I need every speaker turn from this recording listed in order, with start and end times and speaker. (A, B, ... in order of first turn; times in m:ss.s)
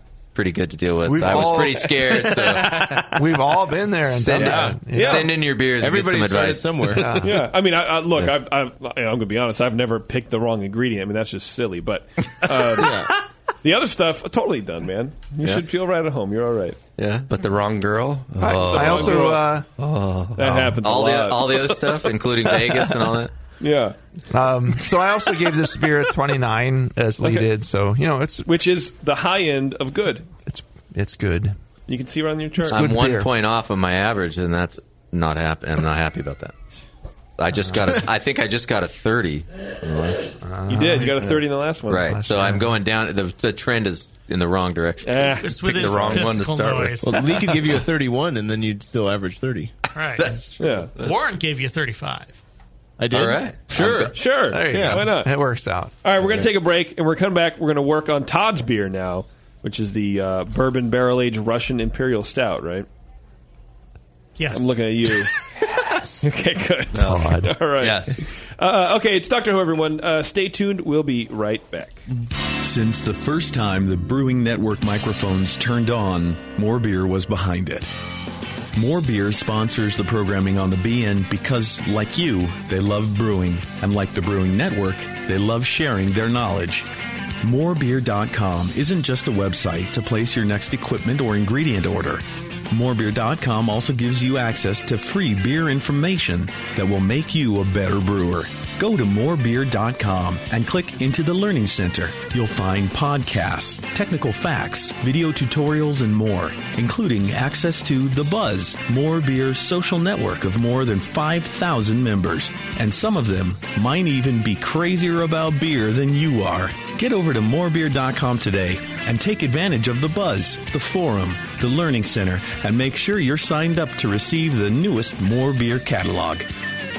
0:00.3-0:03.2 A
0:01.0-0:05.3 B
0:04.0-0:07.0 A
0:04.3-0:04.8 C
0:04.9-0:05.3 D
0:05.8-0:07.1 C
0:06.9-0:07.4 B
0:07.2-0:16.8 D
0:12.8-0:13.1 C
0:17.0-0:17.4 A
0:17.3-0:19.2 E
0:18.4-0:19.7 B
0:18.4-0:19.2 A
0:18.6-0:19.5 D
0:19.8-0:23.3 A
0:19.8-0:20.5 E
0:20.4-0:22.8 D
0:23.6-0:24.0 D
0:24.3-0:28.5 B
0:27.2-0:27.5 D
0:28.4-0:30.3 D
0:30.4-0:31.6 B
0:31.9-0:32.8 D
0:32.7-0:33.3 B
0:32.7-0:36.5 A
0:37.4-0:40.3 A
0:40.4-0:41.4 B
0:40.7-0:42.2 D
0:41.9-0:46.3 A
0:42.1-0:42.8 B
0:45.0-0:46.2 D
0:45.4-0:47.4 F
0:45.6-0:47.0 E
0:47.0-0:49.8 C
0:49.9-0:50.3 F
0:50.2-0:51.1 A
0:50.6-0:50.9 D
0:51.0-0:52.4 F
0:53.0-0:54.2 C
0:53.1-0:54.2 A
0:54.1-0:55.3 D
0:54.5-0:55.9 B
0:54.7-0:55.1 C
0:56.0-1:02.9 D
1:04.4-1:04.7 F
1:04.5-1:05.4 D
1:06.2-1:12.0 D
1:07.0-1:07.6 B
1:07.8-1:08.1 E
1:12.6-1:17.9 G
1:18.8-1:26.9 G
1:27.4-2:06.5 G